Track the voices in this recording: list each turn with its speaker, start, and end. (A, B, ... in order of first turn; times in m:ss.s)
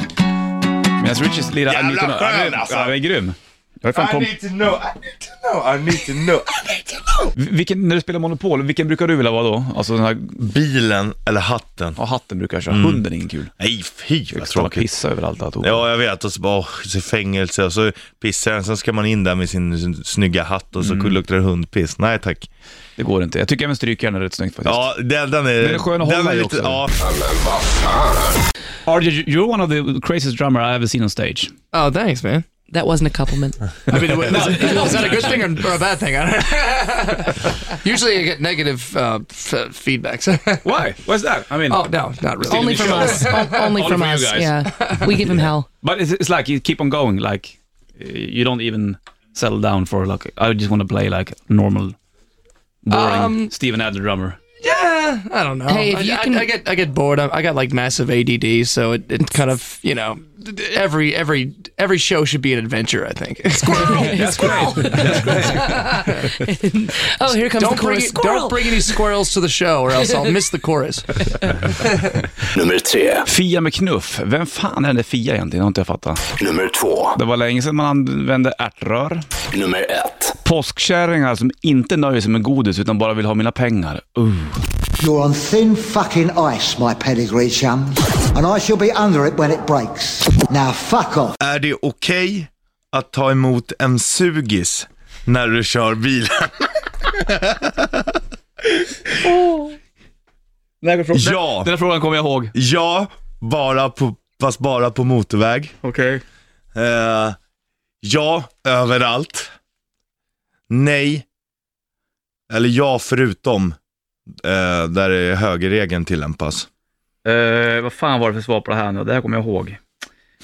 0:01.0-0:04.3 A
0:01.7-0:03.0 B
0:03.9-0:07.3 B
0:07.4-0:10.4 A
0:10.4-0:12.0 B
0:12.0-0:13.5 A
0:12.7-0:13.0 B
0:13.6-0:14.9 B
0:14.3-0:15.9 A
0:15.6-0:22.5 B
0:20.8-0:21.2 A
0:23.0-0:24.9 A
0:24.6-0:27.1 B
0:25.6-0:26.8 A
0:28.8-0:31.5 A
0:31.7-0:32.5 C
0:32.6-0:33.7 D
0:33.8-0:40.9 C
0:34.1-0:35.6 A
0:34.5-0:35.0 D
0:40.6-0:41.8 A
0:41.6-0:43.8 C
0:42.4-0:44.5 A
0:42.9-0:45.7 D
0:44.8-0:45.1 C
0:45.3-0:52.0 A
0:52.8-0:54.4 A
0:52.9-0:53.5 C
0:54.6-1:06.2 C
0:55.7-0:56.5 D
1:03.8-1:05.7 A
1:03.8-1:09.0 D
1:07.4-1:11.1 C
1:10.0-1:10.3 D
1:11.7-1:12.1 C
1:12.6-1:13.2 E
1:13.2-1:16.2 A
1:16.4-1:17.1 E
1:17.1-1:19.2 A
1:19.5-1:20.3 E
1:20.4-1:24.6 A
1:25.0-1:31.4 F
1:31.4-1:38.1 B
1:39.2-1:39.7 A
1:40.8-1:42.5 A
1:41.1-1:41.7 B
1:42.5-1:45.7 B
1:45.8-1:46.2 A
1:46.7-1:47.4 B
1:48.0-1:49.5 B
1:50.7-1:51.2 B
1:52.5-1:53.7 B
1:54.4-1:56.7 B
1:57.2-1:59.8 A